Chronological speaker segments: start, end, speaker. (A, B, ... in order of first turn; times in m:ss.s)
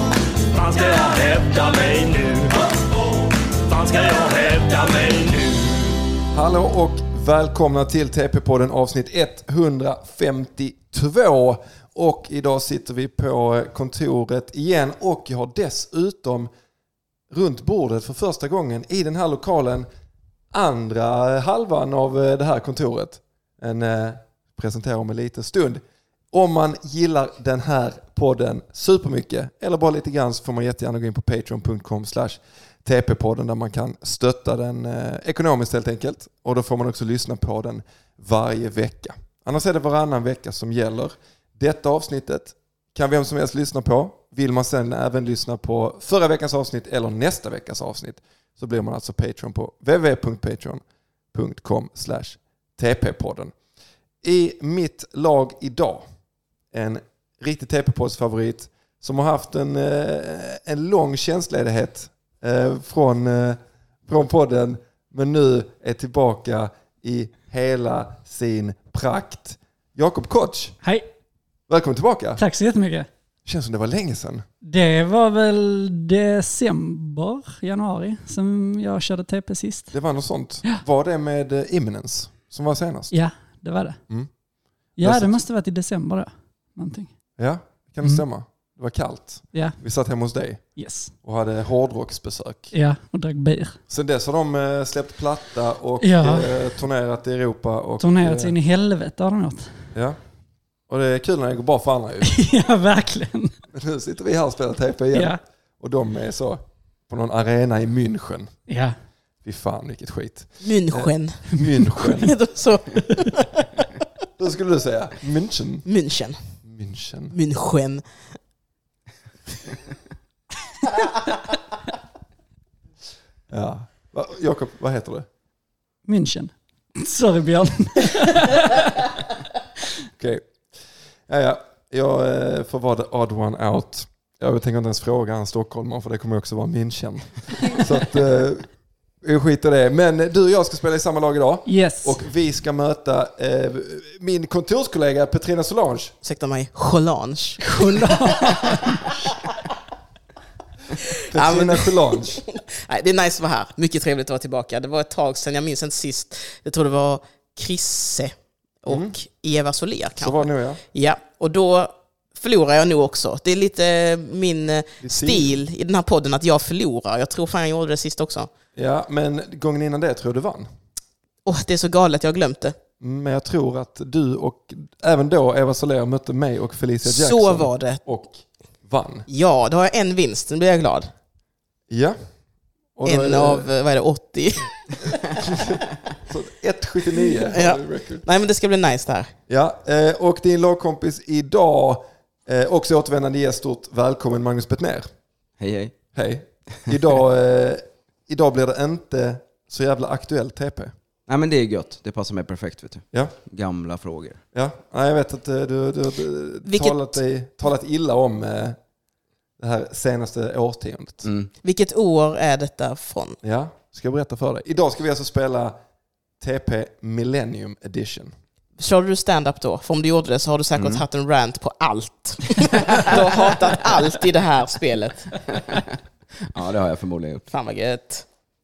0:00.5-0:06.0 A
0:06.3-0:16.5 B
0:17.3-0:19.9 B
0:20.5-0:50.8 B
0:51.3-0:53.5 B
0:54.2-0:56.0 B
0:56.7-1:10.8 B
1:11.7-1:12.4 B
1:12.4-1:13.1 C
1:13.4-1:14.4 B
1:14.6-1:19.9 C
1:19.9-1:23.1 B
1:23.1-1:24.0 C
1:25.0-1:25.4 B
1:25.0-1:27.1 C
1:27.4-1:30.6 B
1:30.8-1:31.1 C
1:31.2-1:32.7 B
1:32.7-1:33.8 C
1:33.9-1:38.6 B
1:36.0-1:36.7 C
1:38.0-1:39.7 C
1:40.9-1:42.4 B
1:42.2-1:43.5 C
1:43.7-1:48.5 B
1:45.1-1:45.4 C
1:48.7-1:49.0 C
1:49.4-1:52.3 B
1:50.6-1:51.4 D
1:52.0-1:53.6 D
1:54.4-1:55.8 B
1:55.8-1:56.4 D
1:56.6-1:57.4 B
1:57.3-1:58.0 D
2:03.5-2:05.3 B
2:06.0-2:09.0 C
2:10.2-2:10.5 B
2:11.3-2:18.7 B
2:19.2-2:26.1 B
2:21.7-2:22.2 C
2:26.2-2:28.7 D
2:27.6-2:29.1 C
2:31.0-2:48.5 D
2:31.3-2:32.4 B
2:38.9-2:39.1 B
2:40.2-2:40.8 B
2:45.0-2:45.5 B
2:48.8-2:50.7 B
2:51.4-2:52.8 D
2:53.0-2:59.2 B
2:57.0-2:58.0 D
2:59.3-3:01.1 D
3:01.9-3:02.2 B
3:03.0-3:03.7 B
3:03.0-3:04.8 D
3:05.4-3:08.2 B
3:07.3-3:09.3 D
3:09.5-3:15.1 B
3:15.6-3:15.9 E
3:16.1-3:20.9 B
3:21.3-3:24.4 E
3:24.5-3:28.8 B
3:26.6-3:27.2 D
3:29.6-3:31.3 B
3:31.2-3:31.5 E
3:31.6-3:33.4 D
3:33.4-3:35.8 B
3:36.4-3:38.3 B
3:38.8-3:45.3 D
3:40.8-3:41.0 E
3:45.5-3:47.5 E
3:47.5-3:48.2 D